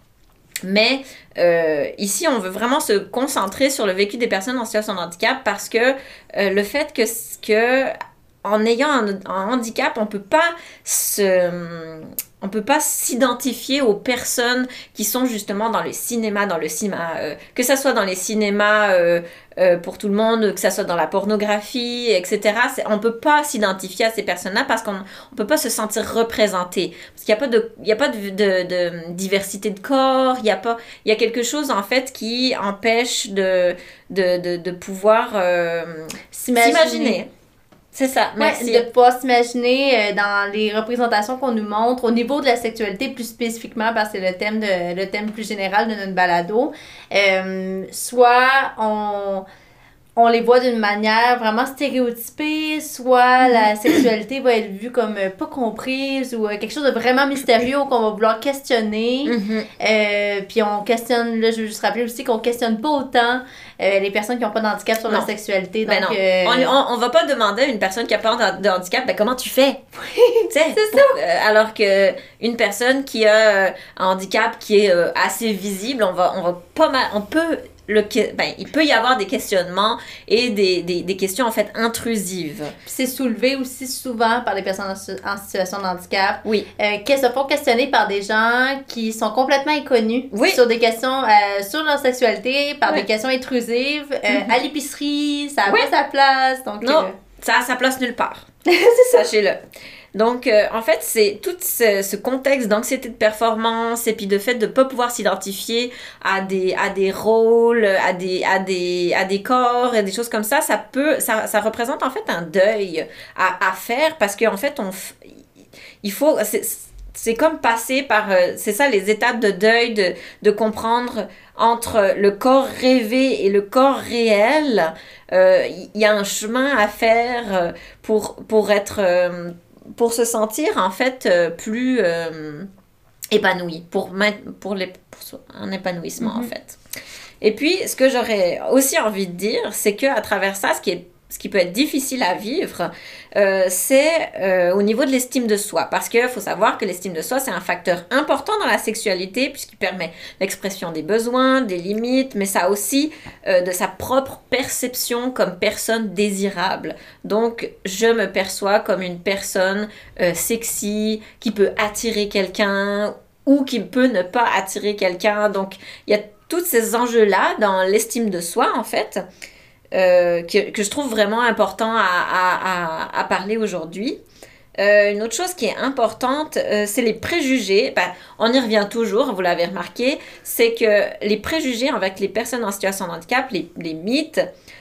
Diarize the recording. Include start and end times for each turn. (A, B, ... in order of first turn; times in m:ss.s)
0:00.6-0:37.3 A
0:36.3-0:37.2 B
0:37.9-0:38.8 A
0:38.4-0:49.4 B
0:50.2-1:06.7 B
0:59.2-0:59.7 A
1:05.8-1:09.8 A
1:10.0-1:11.2 B
1:10.5-1:22.7 A
1:22.8-1:37.1 B
1:30.3-1:30.6 A
1:36.8-1:38.4 A
1:38.7-1:39.2 B
1:39.0-1:39.6 A
1:40.1-1:55.2 A
1:56.0-2:12.7 A
2:13.3-2:16.8 A
2:16.2-2:16.5 B
2:17.4-2:49.2 A
2:49.9-2:54.2 A
2:54.8-3:04.4 A